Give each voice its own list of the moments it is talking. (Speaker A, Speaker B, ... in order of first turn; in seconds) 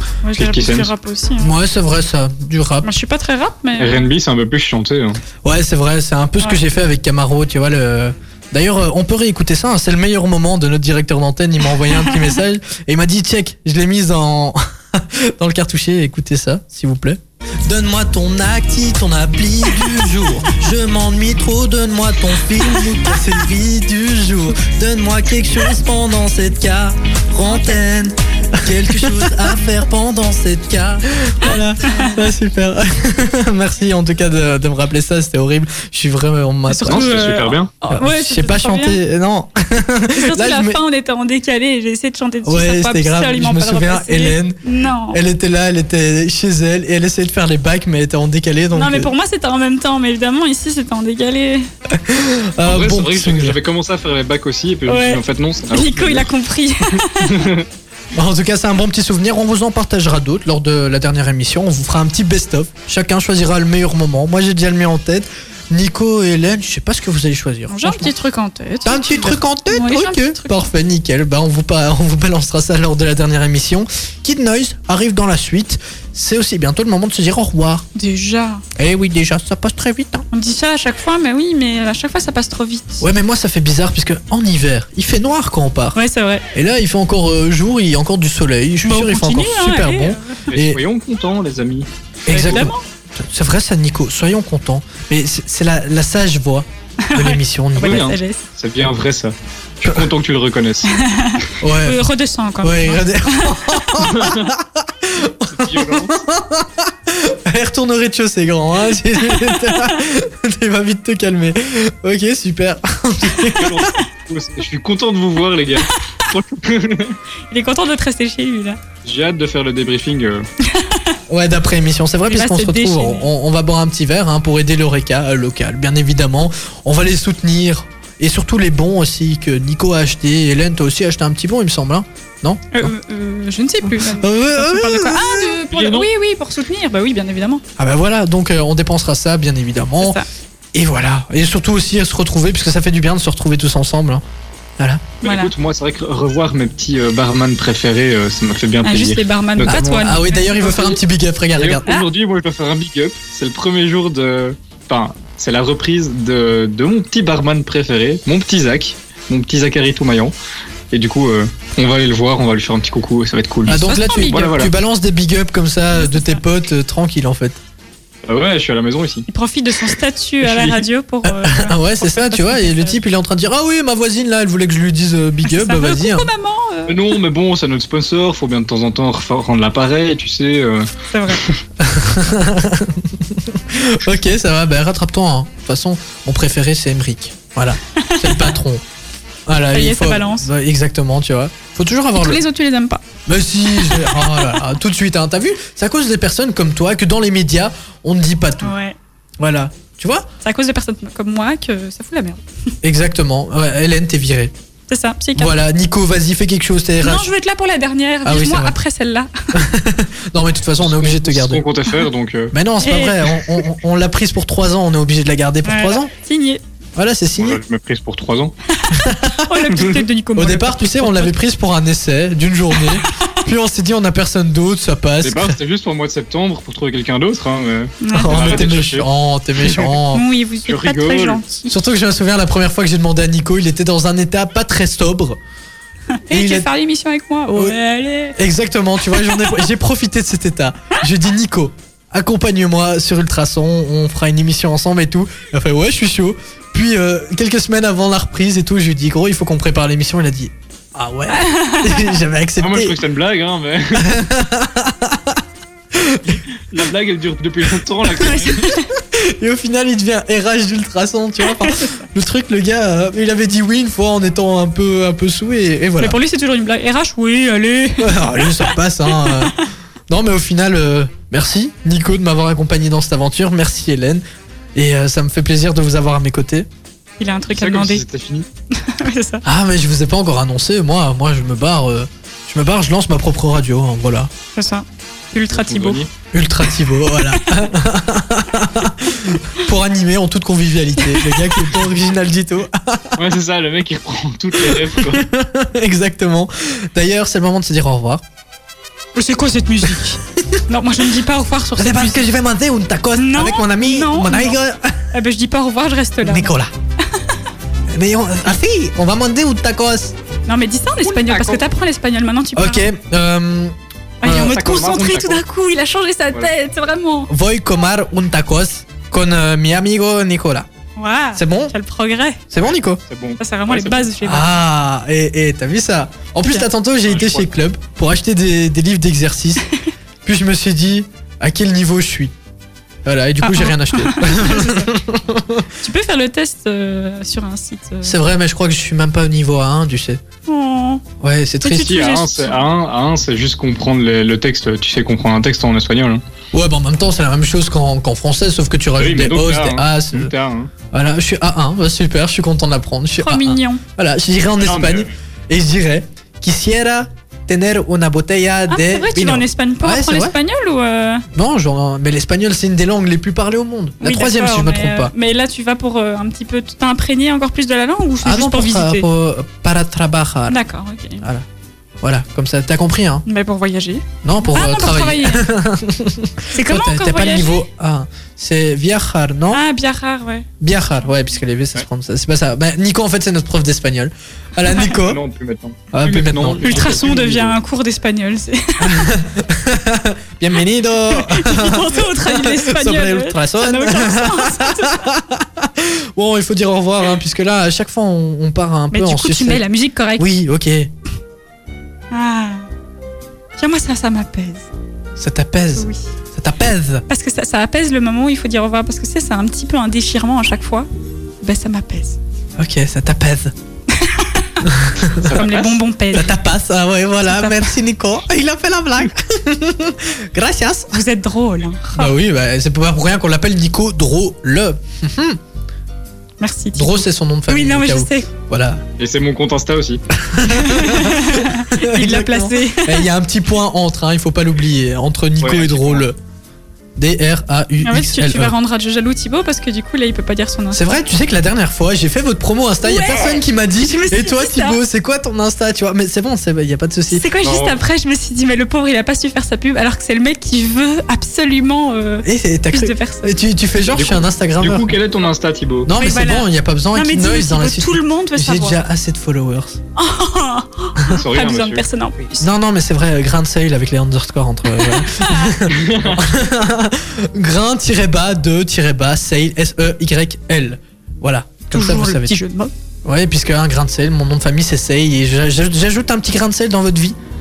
Speaker A: 0.2-1.5, 2.8-4.1, 11.8-12.4, 27.4-27.8, 28.9-29.5, 31.4-32.3, 36.7-39.0, 40.1-45.2, 48.7-51.7, 54.9-57.5, 67.7-70.7, 77.9-78.6, 80.3-83.1, 85.9-86.4, 88.8-90.4, 92.3-92.8, 97.0-98.4, 100.8-104.0, 109.3-110.0, 117.5-118.8, 120.6-121.2, 122.2-123.3, 132.7-137.6, 140.0-140.2, 145.2-145.5, 148.8-150.7, 163.7-164.6, 165.9-166.4, 169.3-173.0, 175.4-177.2, 181.1-181.4, 187.9-188.5, 189.7-190.5, 192.1-193.0, 193.8-194.7, 198.6-199.0, 200.4-202.4, 204.9-205.5, 207.0-209.3, 212.8-213.6, 215.6-216.6, 218.8-221.3, 222.7-223.4, 228.0-228.5, 230.1-231.7, 236.2-238.4, 239.1-239.7, 251.3-252.2, 258.5-258.8, 261.4-261.9, 266.0-269.6, 277.2-278.1, 278.7-279.4, 284.5-286.1, 287.1-287.7, 291.0-291.6, 299.1-302.3, 303.1-304.6, 305.1-306.5, 307.1-307.4, 310.4-312.9, 314.2-317.3, 320.9-322.4, 323.4-324.5, 333.4-335.0, 335.8-338.2, 340.4-341.0, 341.6-342.7, 353.2-353.8, 358.7-361.2, 364.0-369.1, 370.5-371.2, 373.2-375.5, 376.5-377.6, 379.5-380.5, 386.6-389.1, 391.1-395.1, 398.9-400.2, 402.1-402.7, 403.6-404.7, 405.7-406.1, 407.1-410.9, 411.4-412.2, 413.9-414.6, 415.3-416.3, 417.2-417.8, 420.9-422.1, 426.4-428.3, 430.5-433.1, 437.8-440.8, 442.8-444.8, 447.1-453.4, 455.9-458.8, 459.9-462.5, 464.6-465.6, 471.7-472.7
Speaker B: 0.3-0.9, 3.8-5.2, 36.9-37.7, 52.6-56.3, 57.2-57.7, 90.5-92.6, 97.8-100.9, 104.0-104.5, 105.5-106.2, 113.6-117.2, 119.0-120.5, 135.7-136.1, 145.2-151.0, 151.5-160.3, 160.9-164.7, 168.3-169.2, 170.4-170.8, 176.9-180.9, 210.8-212.5, 217.4-218.5, 225.2-229.1, 229.6-230.0, 230.7-231.5, 252.6-254.1, 256.3-258.8, 277.5-278.4, 285.5-286.1, 293.1-295.3, 311.0-311.6, 314.3-315.4, 323.1-324.1, 327.0-327.5, 341.7-346.2, 348.9-350.7, 354.6-355.1, 385.0-387.6, 415.1-415.8, 429.0-430.0, 435.4-436.0, 447.4-447.8, 453.9-455.9, 461.0-461.9, 465.7-466.4
Speaker C: 1.4-2.9, 5.4-40.8, 42.4-44.6, 45.1-49.1, 52.0-53.5, 58.1-68.1, 68.8-77.8, 78.8-80.2, 83.0-86.0, 86.5-90.8, 92.3-98.1, 101.6-102.0, 102.6-113.9, 121.3-132.9, 133.8-135.6, 137.8-140.2, 140.7-144.2, 149.6-151.9, 163.7-167.6, 171.2-176.3, 181.8-188.8, 189.5-192.4, 193.2-198.7, 199.4-200.3, 202.8-204.5, 205.3-207.3, 208.2-208.8, 209.5-211.6, 212.5-216.1, 216.9-217.6, 218.9-225.5, 228.1-230.2, 231.7-235.4, 236.3-236.7, 238.3-253.0, 253.9-255.4, 255.9-256.4, 258.5-266.2, 268.0-274.2, 274.7-276.7, 279.4-284.3, 286.3-293.1, 294.6-298.2, 301.8-305.0, 306.2-306.7, 307.9-310.1, 312.6-314.6, 317.3-320.7, 321.3-321.7, 322.5-323.0, 324.2-329.7, 330.2-332.3, 333.0-335.6, 338.0-340.2, 341.2-341.9, 346.5-350.3, 350.9-360.4, 361.3-365.1, 368.2-370.6, 371.2-371.4, 372.0-373.2, 374.2-379.6, 380.6-385.2, 385.9-387.1, 388.8-399.6, 400.2-400.9, 405.2-407.0, 412.6-413.5, 414.6-415.3, 416.1-420.9, 421.9-425.4, 426.7-428.8, 430.2-436.1, 437.0-438.5, 440.7-447.2, 452.2-454.9, 455.8-459.8, 462.4-472.3, 473.0-477.2